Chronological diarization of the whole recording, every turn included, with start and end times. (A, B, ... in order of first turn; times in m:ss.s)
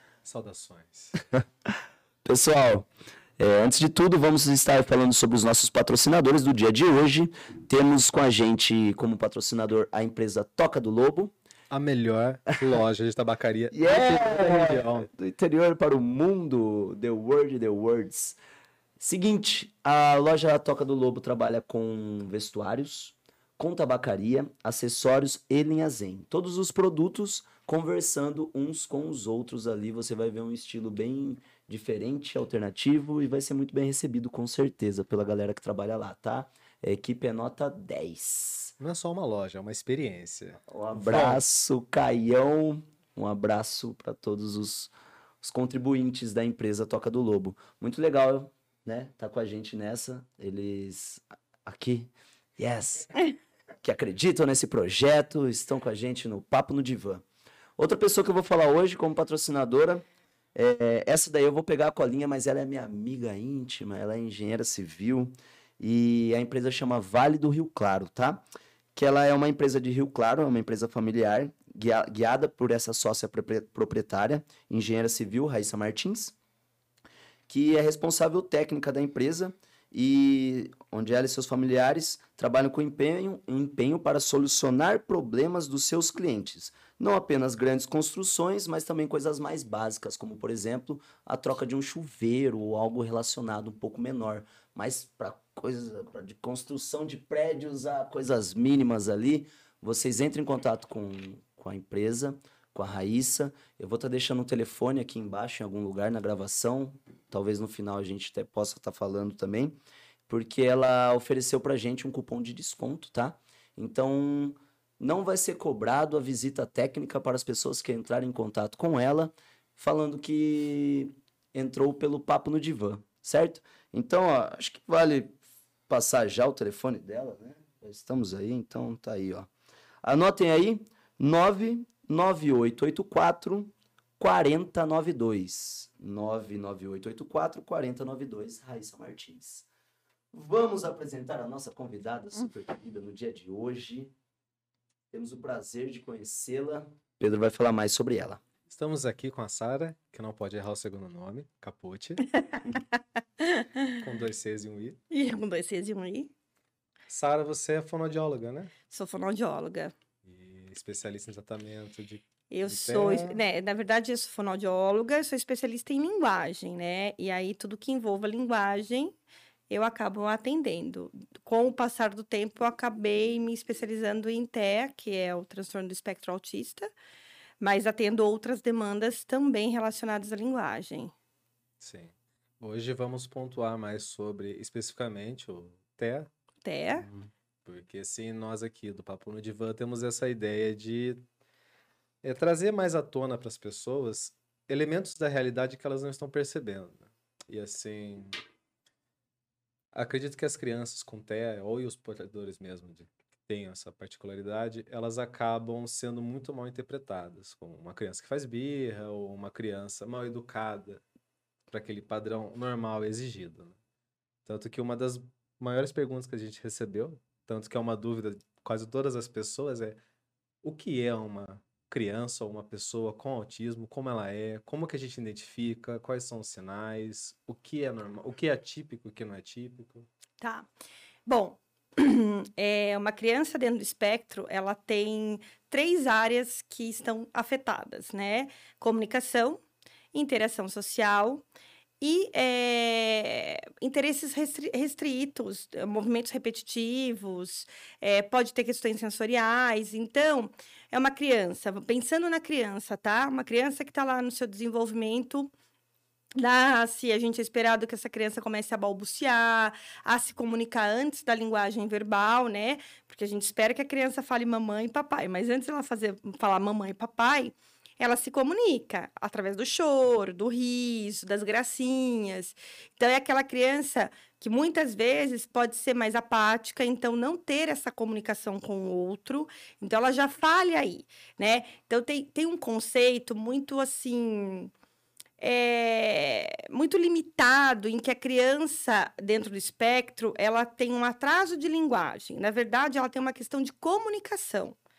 0:00.2-0:01.2 A
0:02.2-0:02.9 B
0:03.4-0:11.3 B
0:11.7-0:15.1 A
0:13.7-0:18.4 B
0:19.0-0:38.8 B
0:38.8-0:41.4 A
0:40.7-0:53.1 B
0:53.8-0:57.2 B
0:57.8-1:00.0 B
1:00.6-1:08.4 B
1:09.0-1:16.4 B
1:17.5-1:49.8 B
1:50.3-2:09.5 B
2:10.0-2:19.7 B
2:20.3-2:24.1 B
2:25.1-2:28.4 B
2:28.7-2:32.8 A
2:32.5-2:32.8 C
2:33.4-2:34.0 C
2:33.9-2:35.0 A
2:35.1-2:36.3 C
2:37.1-2:38.7 A
2:38.9-2:39.9 C
2:40.2-2:43.4 A
2:42.5-2:49.2 C
2:49.7-2:56.9 C
2:57.6-3:01.1 C
3:01.8-3:06.3 A
3:06.6-3:07.1 C
3:07.1-3:11.2 A
3:12.2-3:18.4 A
3:19.9-3:31.0 A
3:31.7-3:33.8 A
3:34.5-3:40.0 A
3:40.6-3:50.1 A
3:50.4-3:50.7 C
3:51.3-3:59.6 C
4:00.1-4:01.4 C
4:02.0-4:15.5 C
4:16.4-4:44.7 C
4:45.4-4:54.8 C